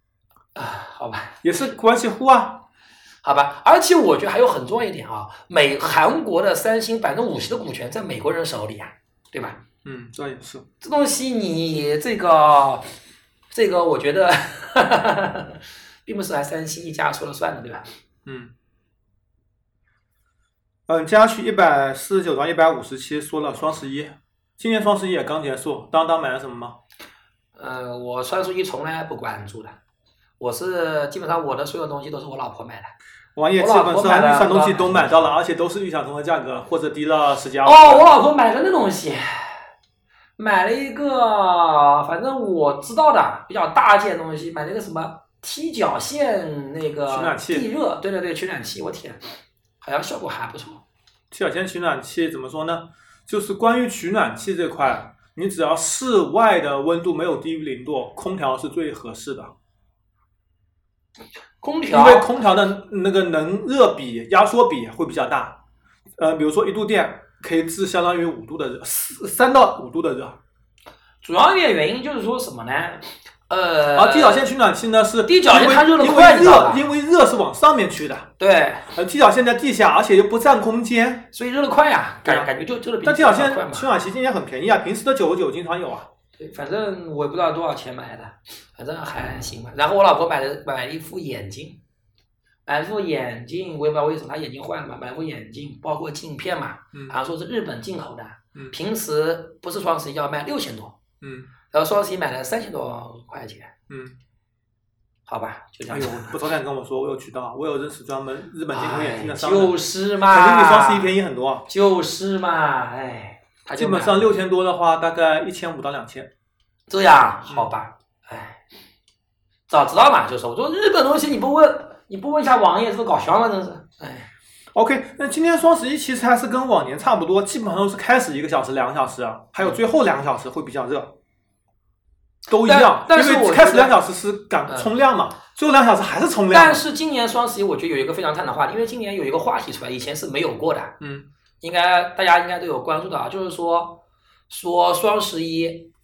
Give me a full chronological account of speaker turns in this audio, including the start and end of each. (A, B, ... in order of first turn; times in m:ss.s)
0:00.6-0:01.4 A
0:01.4-0:02.6 B
0:03.2-0:09.6 A
0:09.8-0:10.6 B
0:10.8-0:12.9 A
0:13.5-0:17.9 A
0:18.3-0:18.5 B
0:20.9-0:26.8 B
0:27.6-0:29.8 A
0:30.4-0:32.9 A
0:33.4-0:38.1 B
0:33.6-0:35.4 A
0:37.6-0:39.6 A
0:40.4-0:49.2 A
0:47.1-0:47.7 B
0:49.8-0:50.8 A
0:51.3-0:59.5 B
1:01.6-1:02.3 A
1:01.9-1:05.6 B
1:06.2-1:10.4 B
1:11.2-1:14.5 A
1:14.0-1:18.3 B
1:15.3-1:16.8 A
1:18.4-1:18.9 A
1:18.9-1:21.3 B
1:21.3-1:23.9 A
1:22.2-1:22.5 B
1:23.0-1:26.1 B
1:26.4-1:31.8 A
1:32.7-1:41.0 A
1:41.2-1:41.5 B
1:41.7-1:43.7 A
1:43.9-1:44.2 B
1:45.3-1:46.4 A
1:45.9-1:51.7 B
1:48.7-1:51.1 A
1:51.7-1:54.3 A
1:53.8-1:56.3 B
1:56.9-1:58.6 A
1:59.7-2:04.3 A
2:04.7-2:11.2 B
2:12.5-2:16.8 B
2:12.6-2:14.0 A
2:16.5-2:21.0 A
2:21.0-2:21.3 B
2:21.6-2:25.9 A